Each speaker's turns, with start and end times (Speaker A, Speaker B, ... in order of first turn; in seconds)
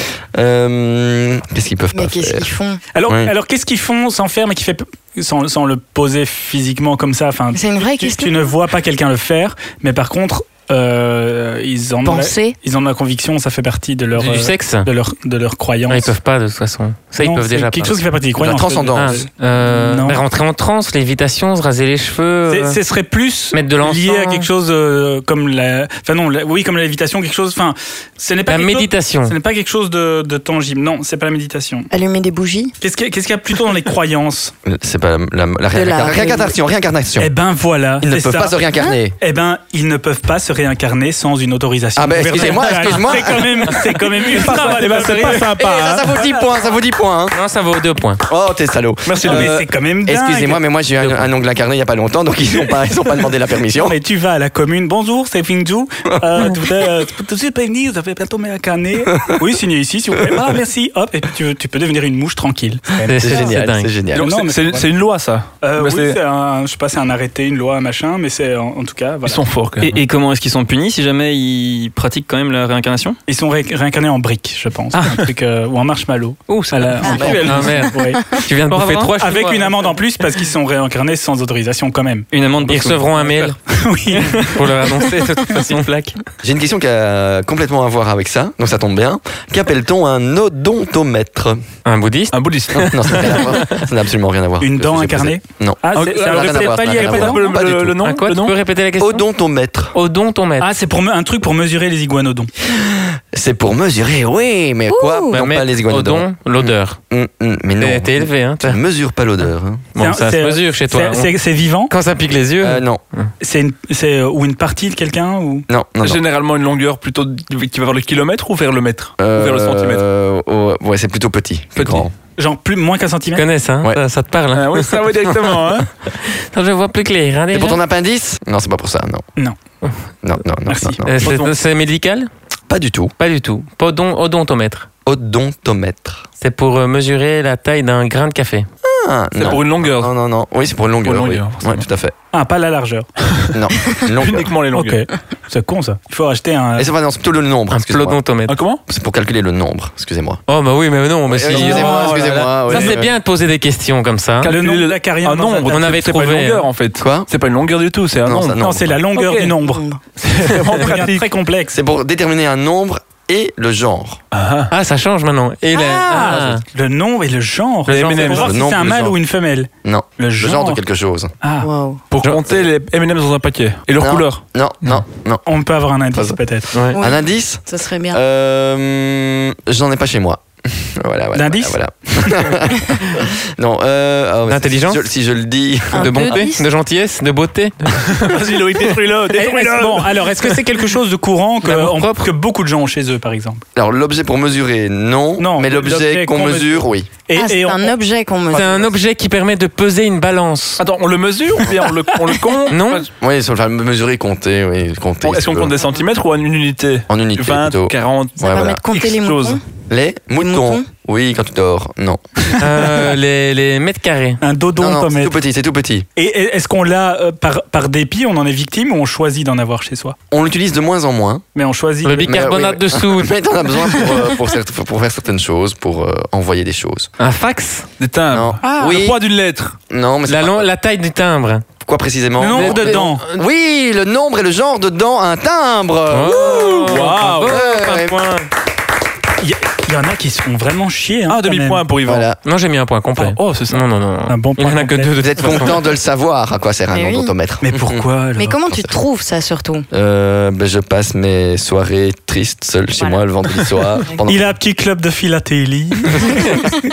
Speaker A: 0.3-2.5, 3.1-3.3, 18.4-19.2, 34.6-37.3, 38.0-39.2, 42.0-43.7, 45.6-47.4, 48.3-54.0, 56.2-56.5, 63.2-64.3, 77.1-77.5, 86.4-91.6, 92.7-98.0, 99.0-100.0, 102.6-109.8, 112.6-113.0, 115.7-116.2, 119.2-122.1, 127.5-129.2, 130.2-131.1, 132.7-133.1, 135.1-136.2, 138.8-142.1, 143.5-144.5, 146.8-148.2, 148.9-150.4, 151.3-153.1, 157.0-157.3, 158.2-158.9, 161.7-164.2, 168.4-169.2, 169.8-171.3, 174.0-175.4, 176.1-186.5, 193.7-197.1, 203.2-205.7, 207.1-208.8, 209.9-212.2, 214.8-216.1, 220.3-221.4, 222.2-227.1, 228.3-229.2, 229.9-230.7, 231.8-238.2, 242.1-242.4, 245.2-248.1, 249.9-254.6
Speaker B: 1.9-2.8, 7.5-8.4, 12.1-12.6, 31.9-32.7, 35.7-36.5, 77.1-77.4, 104.9-105.4, 159.6-160.0, 171.6-172.0, 176.9-178.2, 185.9-186.6, 197.3-198.9, 208.4-209.6, 210.4-210.9, 246.9-247.3, 248.4-249.9, 253.0-253.2
Speaker C: 2.9-16.1, 17.2-20.2, 22.5-31.9, 32.8-34.5, 37.2-38.6, 39.2-46.5, 49.2-50.6, 53.8-63.5, 64.1-64.9, 65.6-69.4, 73.3-78.2, 79.2-82.3, 83.7-84.7, 94.6-97.4, 100.6-102.5, 110.0-111.9, 113.4-115.7, 122.4-123.5, 130.7-131.0, 142.3-143.1, 144.7-146.9, 151.5-152.2, 154.4-155.8, 158.6-161.8, 165.7-170.8, 171.4-171.7, 175.4-176.7, 181.3-182.5, 189.3-193.6, 195.4-197.9, 214.4-215.4, 216.2-220.2, 221.6-222.4, 228.6-229.1, 232.4-233.2, 239.4-241.8, 244.3-245.1, 247.6-248.6, 254.3-256.5
Speaker D: 14.2-14.9, 15.9-18.0, 18.9-22.8, 23.5-24.5, 28.5-29.4, 47.3-48.2, 51.0-51.3, 63.0-63.9, 77.4-79.8, 82.7-83.5, 84.2-86.2, 91.8-93.8, 98.0-99.3, 99.9-100.7, 105.3-107.0, 107.8-108.8, 110.0-111.3, 111.9-113.3, 123.3-125.6, 126.1-127.8, 131.1-132.3, 133.2-134.9, 136.4-138.7, 147.7-148.6, 150.5-154.5, 155.7-156.7, 164.7-166.6, 167.9-168.5, 184.5-185.0, 185.9-188.3, 191.6-192.3, 198.5-200.8, 202.7-203.1, 212.6-214.4, 222.0-224.2, 227.2-227.9, 230.3-231.7, 232.5-233.4, 236.1-238.5, 242.4-245.9
Speaker E: 44.2-46.0, 49.0-49.7, 64.1-66.2, 69.2-70.0, 74.9-75.3, 92.3-93.4, 95.9-98.5, 116.0-120.0, 121.8-122.0, 124.5-125.9, 131.2-131.6, 139.4-140.1, 141.0-141.8, 144.2-145.1, 148.5-148.8, 151.5-152.9, 154.4-158.6, 159.1-159.6, 160.2-161.3, 164.3-164.7, 167.9-168.5, 172.1-174.4, 188.0-190.3, 200.8-203.1, 205.2-209.6, 228.0-229.8, 236.7-237.6, 241.3-242.3, 243.2-243.8
Speaker F: 69.8-73.2, 76.5-77.7, 78.7-79.2, 82.3-83.2